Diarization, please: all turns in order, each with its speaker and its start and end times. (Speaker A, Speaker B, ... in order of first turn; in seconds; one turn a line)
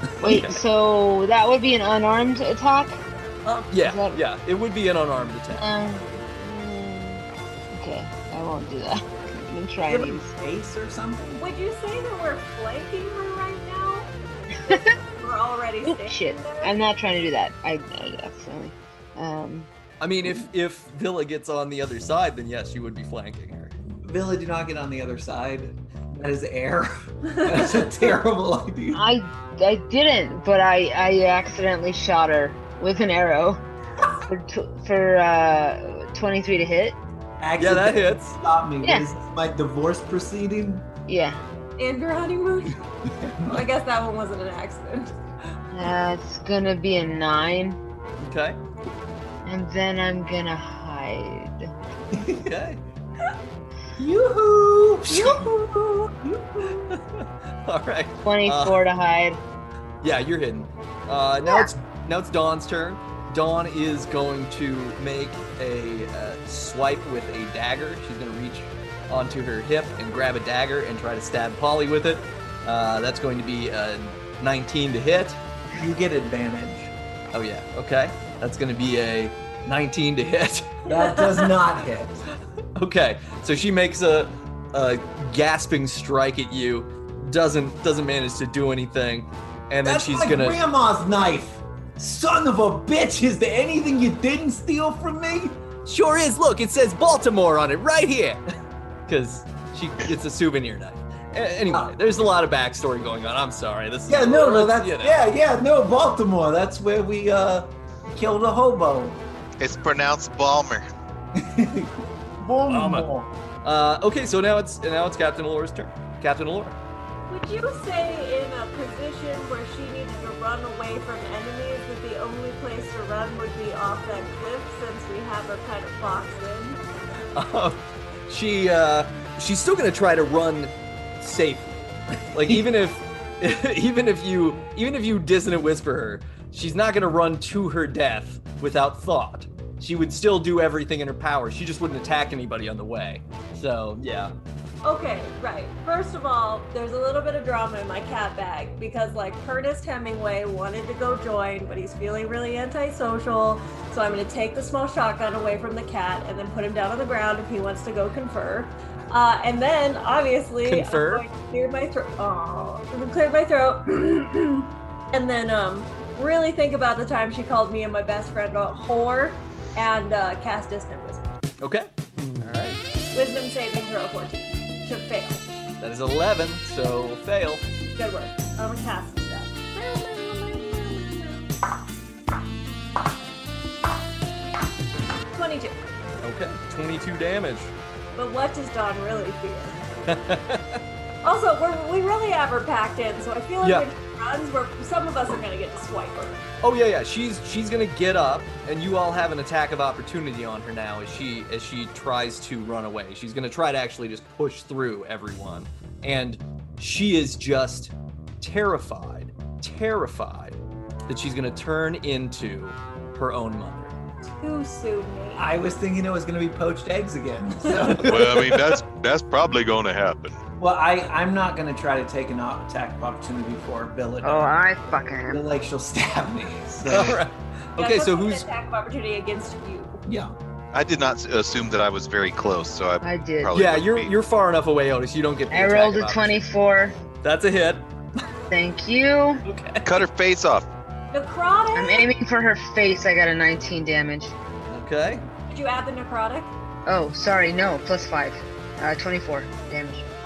Speaker A: 0.2-0.6
Speaker B: 0.2-3.0
Speaker A: 3.5-5.7
Speaker B: 3.8-4.2
Speaker B: 5.5-10.3
Speaker C: 9.9-11.4
Speaker D: 11.4-14.1
Speaker B: 14.6-14.9
Speaker D: 14.7-16.7
Speaker B: 15.8-19.7
Speaker A: 20.0-23.8
Speaker C: 24.0-29.0
Speaker B: 28.9-33.6
Speaker B: 34.3-37.0
Speaker C: 37.4-40.9
Speaker A: 37.6-38.4
Speaker B: 38.8-39.1
Speaker B: 41.1-41.4
Speaker D: 41.8-42.8
Speaker C: 43.2-43.6
Speaker D: 43.5-45.1
Speaker B: 45.7-47.8
Speaker A: 48.2-48.6
Speaker B: 49.4-51.7
Speaker C: 52.1-52.4
Speaker A: 52.4-52.8
Speaker C: 54.0-55.5
Speaker D: 55.1-56.1
Speaker C: 56.2-57.0
Speaker A: 56.7-58.8
Speaker B: 58.2-59.4
Speaker A: 60.0-75.4
Speaker B: 61.5-61.7
Speaker C: 75.7-76.9
Speaker A: 77.3-80.8
Speaker D: 80.9-81.6
Speaker C: 80.9-82.2
Speaker A: 82.8-90.6
Speaker C: 89.8-95.6
Speaker A: 95.8-98.4
Speaker A: 99.1-105.2
Speaker C: 101.7-102.0
Speaker C: 104.1-109.2
Speaker E: 109.6-110.8
Speaker C: 111.3-113.3
Speaker A: 112.7-113.1
Speaker A: 113.6-116.8
Speaker D: 117.3-126.8
Speaker A: 127.3-144.3
Speaker D: 144.8-171.2
Speaker A: 160.7-161.3
Speaker A: 171.6-172.8
Speaker D: 173.1-175.4
Speaker A: 175.8-177.6
Speaker D: 178.0-181.5
Speaker D: 185.3-185.7
Speaker A: 186.2-187.7
Speaker D: 188.2-189.8
Speaker A: 190.1-190.8
Speaker D: 191.2-196.4
Speaker A: 196.6-213.9
Speaker D: 214.4-215.5
Speaker C: 215.4-218.6
Speaker A: 217.8-218.5
Speaker E: 218.1-220.4
Speaker C: 220.6-224.6
Speaker B: 224.2-225.4
Speaker C: 225.2-227.2
Speaker A: 226.9-228.5
Speaker D: 227.8-230.0
Speaker C: 230.1-230.3
Speaker E: 230.7-234.1
Speaker B: 233.0-233.5
Speaker A: 233.5-236.4
Speaker B: 235.5-236.9
Speaker A: 237.2-237.9
Speaker B: 238.5-239.4
Speaker A: 239.5-239.9
Speaker E: 239.8-240.7
Speaker D: 241.1-242.1
Speaker B: 241.8-244.3
Speaker A: 244.7-245.2
Speaker D: 245.5-246.5
Speaker B: 246.9-250.1